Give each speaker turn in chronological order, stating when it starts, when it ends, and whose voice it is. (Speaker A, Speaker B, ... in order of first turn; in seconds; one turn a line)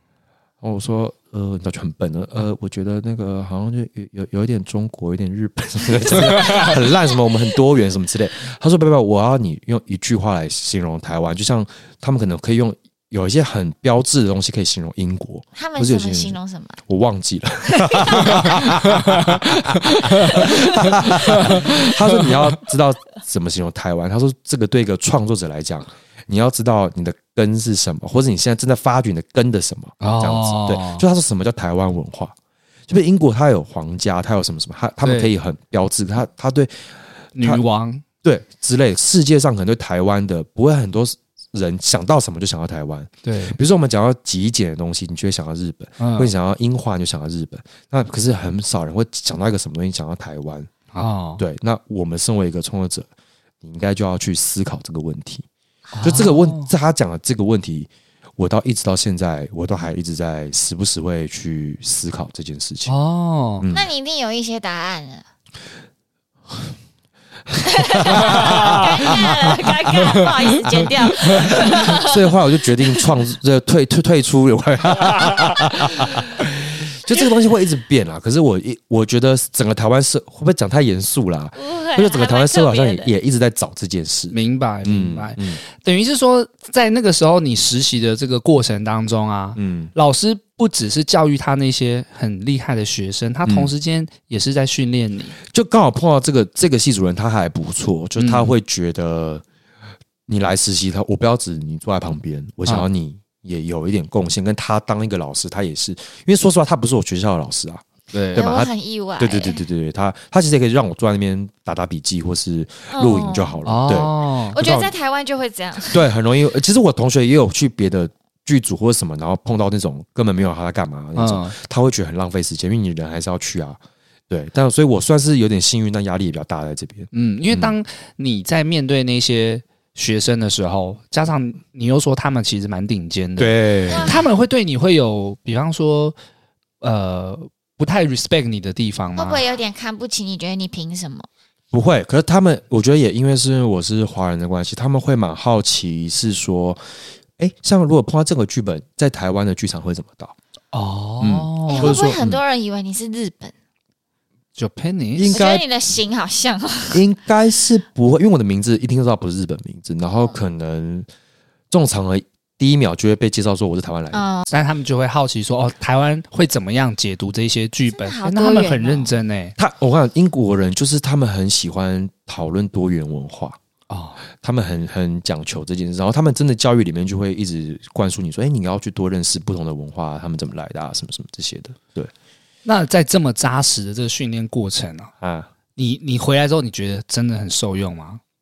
Speaker A: 0.6-32.3
Speaker B: 6.4-6.7
Speaker C: 6.4-6.8
Speaker C: 15.6-16.8
Speaker C: 17.7-18.7
Speaker B: 19.0-19.4
Speaker B: 20.0-22.5
Speaker B: 30.0-31.1
Speaker A: 32.9-36.7
Speaker B: 35.0-35.3
Speaker B: 37.4-38.0
Speaker A: 38.2-50.7
Speaker B: 43.2-43.6
Speaker B: 46.0-46.3
Speaker B: 50.9-51.4
Speaker A: 51.4-53.1
Speaker A: 53.6-55.5
Speaker B: 55.9-56.7
Speaker A: 56.0-62.9
Speaker B: 62.9-63.7
Speaker A: 63.6-63.9
Speaker C: 63.7-65.2
Speaker C: 67.6-72.3
Speaker A: 67.7-70.3
Speaker B: 68.2-70.5
Speaker A: 71.2-85.6
Speaker B: 71.3-71.7
Speaker C: 81.6-83.1
Speaker B: 84.3-95.4
Speaker A: 89.6-89.9
Speaker A: 93.5-93.7
Speaker A: 95.5-99.4
Speaker B: 98.2-98.5
Speaker A: 100.3-114.9
Speaker B: 108.1-108.4
Speaker C: 108.3-109.7
Speaker C: 112.9-113.6
Speaker B: 113.7-114.6
Speaker C: 114.5-116.0
Speaker A: 115.9-123.8
Speaker B: 121.2-121.6
Speaker A: 124.3-127.7
Speaker B: 127.1-136.2
Speaker A: 133.4-134.1
Speaker C: 133.9-134.3
Speaker B: 136.8-139.4
Speaker C: 139.2-141.3
Speaker A: 141.7-146.8
Speaker A: 147.4-150.3
Speaker B: 150.7-152.0
Speaker A: 151.2-152.4
Speaker C: 151.7-153.5
Speaker B: 154.6-155.4
Speaker A: 155.2-155.6
Speaker C: 155.3-157.0
Speaker A: 156.9-161.1
Speaker A: 161.7-164.2
Speaker C: 164.1-164.5
Speaker B: 164.5-169.6
Speaker C: 167.9-169.1
Speaker A: 169.6-173.6
Speaker B: 173.9-174.2
Speaker A: 174.4-182.1
Speaker B: 182.7-185.1
Speaker A: 185.2-185.5
Speaker B: 185.8-188.2